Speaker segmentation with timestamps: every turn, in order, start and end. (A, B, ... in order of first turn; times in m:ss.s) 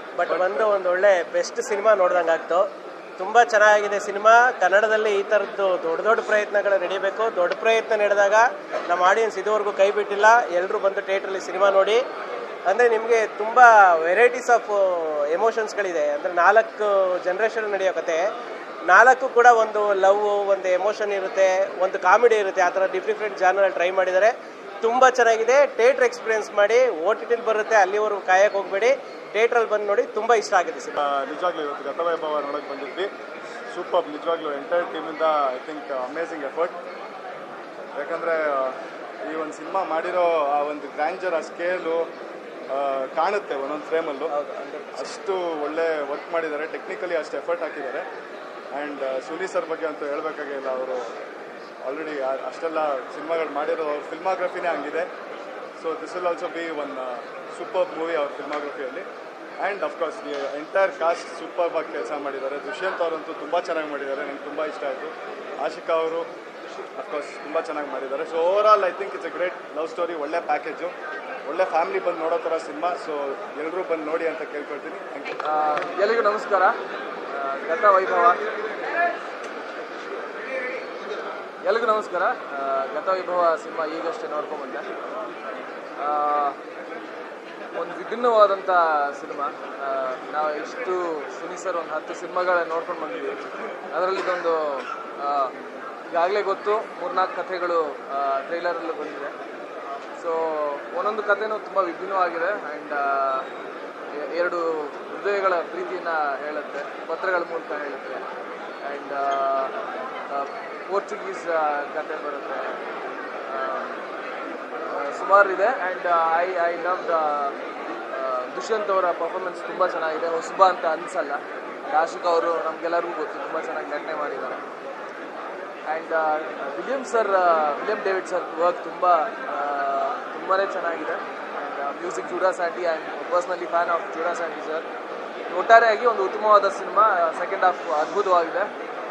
0:00.2-0:02.7 A
0:00.3-0:00.7 B
0:03.2-0:12.0 A
0:12.7-0:18.2 A
0:18.9-0:30.9 A
0:30.9-0:33.1 B
0:33.7-0:36.8 B
0:38.0-0:42.1 B
0:42.7-0:44.3 B
0:44.3-0:45.1 A
0:45.0-0:48.1 B
0:48.7-0:51.1 B
0:51.8-0:55.1 B
0:55.8-0:59.1 B
0:59.6-1:06.3 B
1:07.0-1:15.4 B
1:15.4-1:16.8 C
1:17.3-1:18.4 C
1:21.6-1:24.9 C
1:26.0-1:26.6 C
1:27.8-1:33.4 C
1:33.9-1:35.5 C
1:36.1-1:39.3 C
1:40.2-1:43.5 C
1:44.1-1:48.2 C
1:48.8-1:49.7 C
1:50.3-1:52.8 C
1:53.5-1:54.0 C
1:54.9-1:57.6 C
1:58.1-2:04.6 C
2:05.9-2:14.9 C
2:15.5-2:18.7 C